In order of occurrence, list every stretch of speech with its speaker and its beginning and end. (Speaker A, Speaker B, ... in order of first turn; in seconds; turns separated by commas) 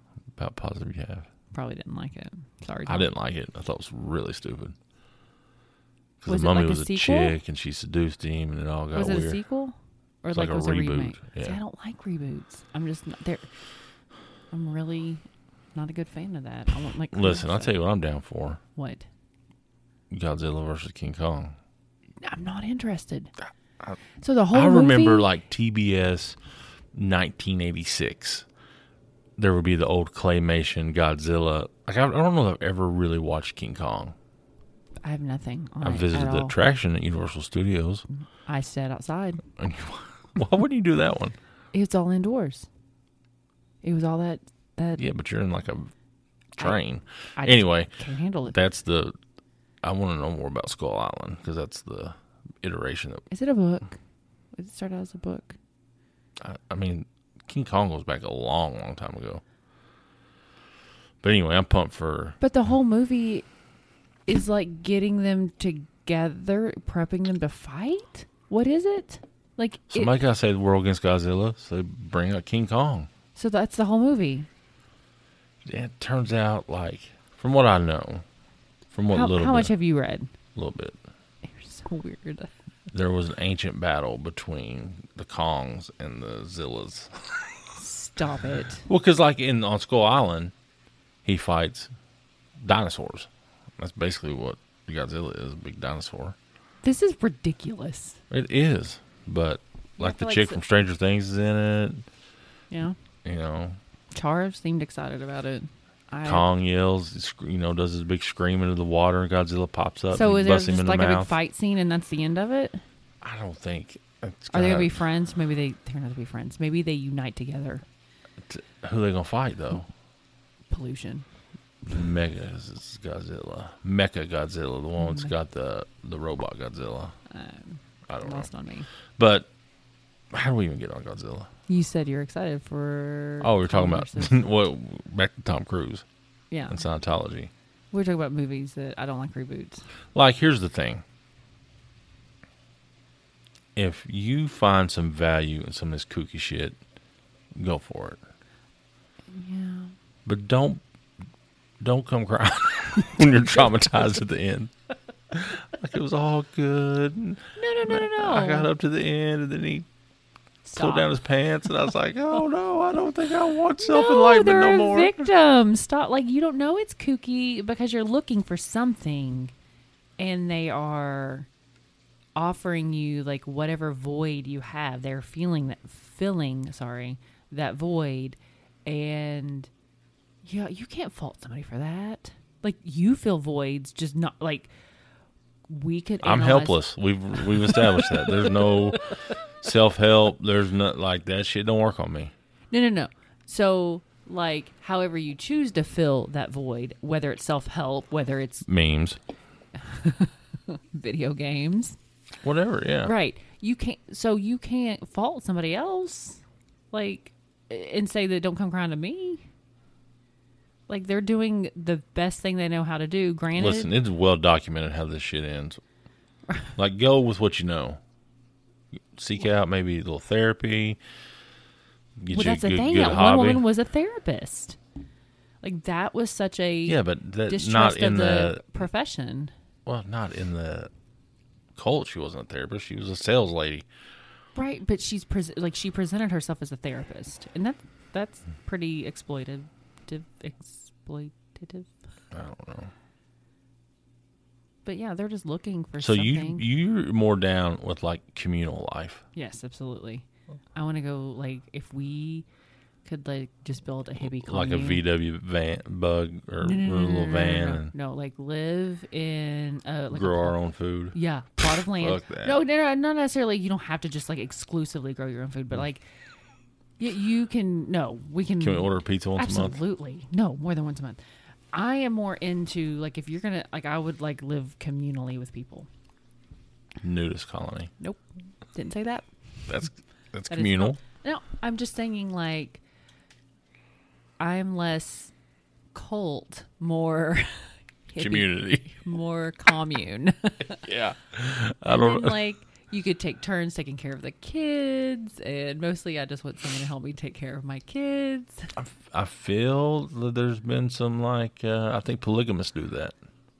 Speaker A: 0.3-1.3, Speaker B: 1.5-3.1, Speaker A: 2.9-4.7, Speaker A: 6.2-9.4, Speaker B: 6.3-7.4, Speaker B: 8.9-13.5, Speaker A: 10.3-11.6, Speaker B: 14.5-15.2, Speaker B: 15.7-17.8, Speaker A: 17.1-18.6, Speaker B: 18.7-19.1, Speaker A: 20.1-21.6, Speaker B: 22.2-23.3, Speaker B: 24.2-25.3, Speaker A: 24.5-26.4, Speaker A: 26.9-28.4, Speaker A: 29.4-34.1, Speaker B: 35.0-36.5, Speaker A: 35.8-38.0, Speaker B: 38.1-39.4, Speaker A: 39.6-41.4, Speaker B: 41.7-42.7, Speaker B: 43.8-45.0, Speaker A: 45.0-45.9, Speaker A: 46.5-47.9, Speaker B: 47.4-48.5, Speaker A: 48.5-49.1, Speaker A: 49.8-53.2, Speaker B: 53.3-54.0, Speaker B: 54.5-55.6, Speaker A: 56.4-59.4, Speaker A: 61.2-62.4, Speaker B: 62.4-63.5, Speaker B: 64.2-70.1, Speaker A: 69.9-73.1, Speaker B: 73.3-74.5, Speaker A: 75.6-78.2, Speaker A: 78.9-79.7, Speaker B: 79.1-80.3, Speaker A: 80.5-81.0, Speaker B: 81.5-82.5, Speaker A: 82.9-87.5, Speaker B: 87.8-88.9, Speaker A: 88.9-90.5, Speaker A: 91.2-91.9, Speaker A: 92.6-96.3, Speaker B: 96.8-98.2, Speaker A: 98.3-102.0, Speaker B: 100.0-100.6, Speaker B: 102.7-103.0, Speaker A: 103.2-103.8, Speaker B: 104.1-106.5, Speaker A: 106.2-111.3, Speaker B: 110.1-112.8, Speaker A: 113.2-115.0, Speaker B: 114.5-117.8, Speaker A: 118.4-119.9, Speaker B: 120.7-121.2, Speaker A: 121.9-127.1, Speaker B: 125.0-125.3, Speaker B: 127.3-128.9, Speaker A: 128.1-128.5, Speaker A: 129.2-129.5, Speaker A: 130.3-131.5, Speaker B: 131.7-134.4, Speaker A: 133.4-136.0, Speaker B: 136.5-136.8, Speaker A: 136.7-137.5, Speaker B: 137.9-139.8, Speaker A: 140.1-141.0, Speaker A: 143.8-146.8, Speaker A: 147.5-148.2, Speaker B: 149.3-149.9, Speaker A: 150.2-150.8, Speaker A: 151.8-154.7, Speaker A: 155.3-159.9, Speaker B: 157.6-158.7, Speaker B: 160.6-161.2, Speaker A: 160.7-165.3, Speaker B: 163.8-169.5, Speaker B: 170.2-171.5, Speaker B: 172.3-179.7, Speaker B: 180.4-184.7, Speaker B: 185.7-189.0, Speaker A: 186.2-189.0, Speaker A: 189.6-192.3, Speaker B: 192.7-198.7, Speaker A: 198.7-199.2, Speaker B: 199.7-202.0, Speaker A: 202.4-203.1, Speaker B: 203.0-206.4, Speaker B: 206.9-209.4, Speaker B: 210.9-213.9, Speaker A: 213.5-215.8, Speaker A: 216.8-218.0, Speaker A: 219.1-221.0, Speaker A: 222.2-223.6, Speaker B: 222.3-224.8, Speaker B: 225.6-229.5, Speaker A: 226.8-228.7, Speaker A: 229.8-230.9, Speaker A: 231.8-233.8, Speaker B: 234.5-241.9, Speaker A: 242.3-242.9, Speaker B: 244.8-246.7, Speaker A: 246.0-249.2, Speaker B: 249.3-252.4, Speaker B: 253.0-255.0, Speaker A: 254.2-257.9, Speaker B: 256.6-260.6, Speaker A: 260.1-261.1, Speaker B: 261.1-266.1, Speaker A: 261.9-262.6, Speaker B: 267.0-271.2, Speaker A: 268.6-269.8, Speaker B: 271.7-275.9, Speaker A: 277.0-277.9, Speaker B: 278.0-279.3, Speaker A: 279.7-281.0, Speaker B: 280.5-282.8, Speaker B: 284.4-285.3, Speaker B: 285.9-290.8, Speaker A: 288.2-289.0, Speaker A: 290.7-292.4, Speaker B: 291.9-298.7, Speaker A: 298.8-303.1